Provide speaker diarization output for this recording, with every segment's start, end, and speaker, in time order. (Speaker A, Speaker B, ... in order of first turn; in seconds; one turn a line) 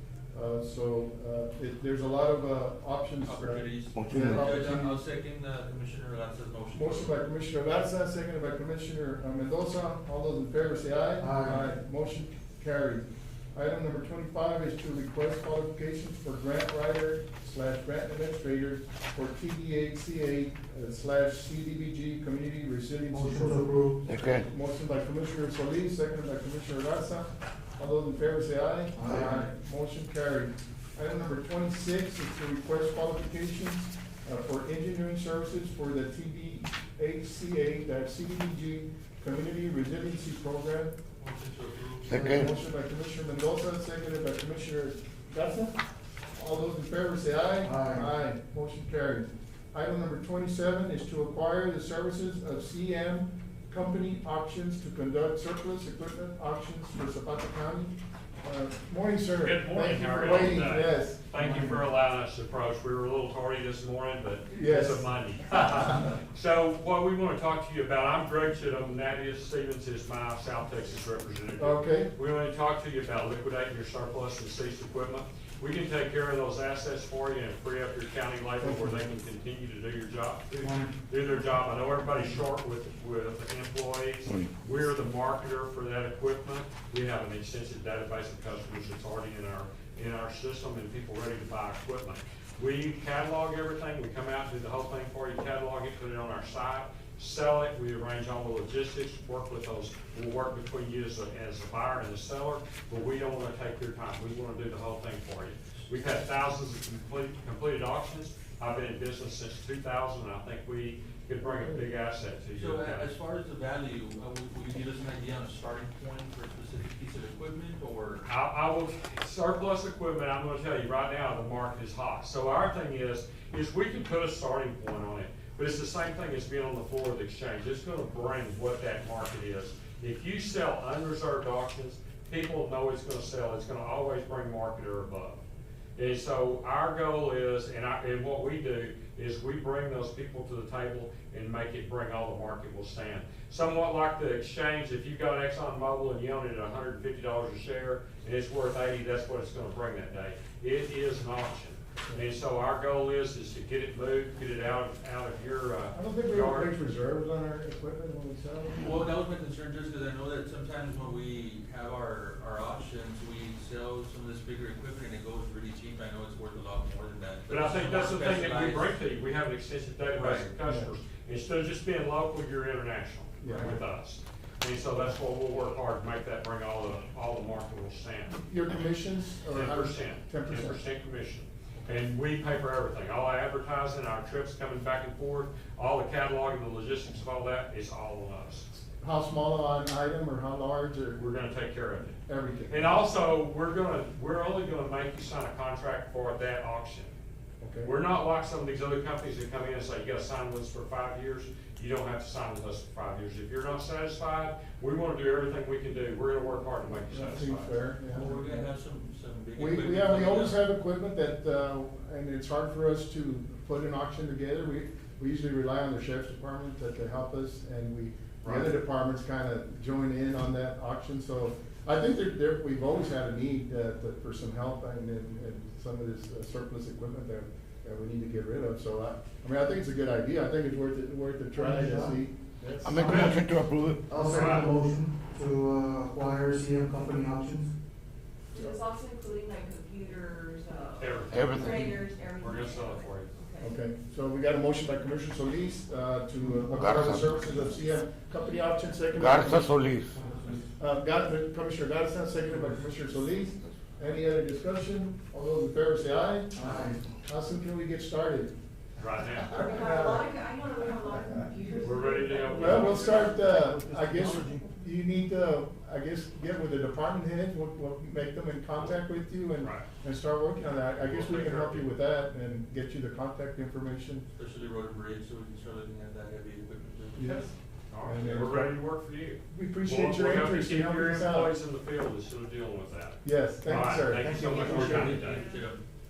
Speaker A: 0.3-5.0
Speaker B: 3.2-7.1
Speaker C: 3.9-4.3
Speaker A: 6.7-41.0
Speaker D: 11.2-11.7
Speaker D: 23.1-24.0
Speaker C: 24.1-24.5
Speaker D: 28.9-29.5
Speaker B: 41.2-42.2
Speaker A: 42.1-45.8
Speaker C: 42.1-42.5
Speaker A: 46.3-61.4
Speaker D: 47.6-48.1
Speaker E: 59.4-113.1
Speaker D: 61.4-61.8
Speaker A: 64.5-65.1
Speaker A: 71.6-72.1
Speaker A: 78.6-79.0
Speaker D: 80.6-80.9
Speaker A: 111.4-111.8
Speaker B: 112.5-118.2
Speaker E: 118.2-135.4
Speaker E: 135.9-156.7
Speaker A: 155.9-159.1
Speaker B: 158.8-168.9
Speaker E: 167.5-178.4
Speaker B: 170.1-170.5
Speaker A: 170.6-170.9
Speaker A: 173.4-173.8
Speaker A: 178.3-180.8
Speaker E: 179.5-188.7
Speaker A: 189.0-191.2
Speaker E: 191.2-197.1
Speaker A: 192.2-192.9
Speaker A: 197.6-197.9
Speaker E: 197.8-207.7
Speaker A: 207.1-208.6
Speaker B: 208.1-210.6
Speaker A: 209.6-233.4
Speaker E: 218.4-218.7
Speaker D: 231.6-232.2
Speaker C: 232.8-234.0
Speaker D: 232.8-237.7
Speaker E: 234.2-234.7
Speaker F: 238.5-243.7
Speaker E: 241.0-243.3
Speaker C: 241.3-241.7
Speaker A: 243.6-249.8
Speaker D: 246.4-247.6
Speaker C: 246.8-247.3
Speaker C: 249.1-250.1
Speaker D: 250.0-250.7
Speaker A: 250.8-258.5
Speaker D: 252.5-252.8
Speaker D: 256.5-257.1
Speaker E: 259.0-259.7
Speaker A: 259.4-260.4
Speaker F: 259.5-262.7
Speaker A: 261.1-261.4
Speaker E: 261.8-263.3
Speaker A: 262.5-274.2
Speaker D: 262.7-263.0
Speaker D: 263.5-264.6
Speaker E: 269.6-269.8
Speaker E: 270.9-271.9
Speaker B: 274.4-277.5
Speaker A: 277.1-278.8
Speaker E: 277.9-285.4
Speaker A: 279.5-281.5
Speaker A: 283.2-285.0
Speaker D: 284.2-285.2
Speaker B: 284.6-285.8
Speaker F: 285.2-285.7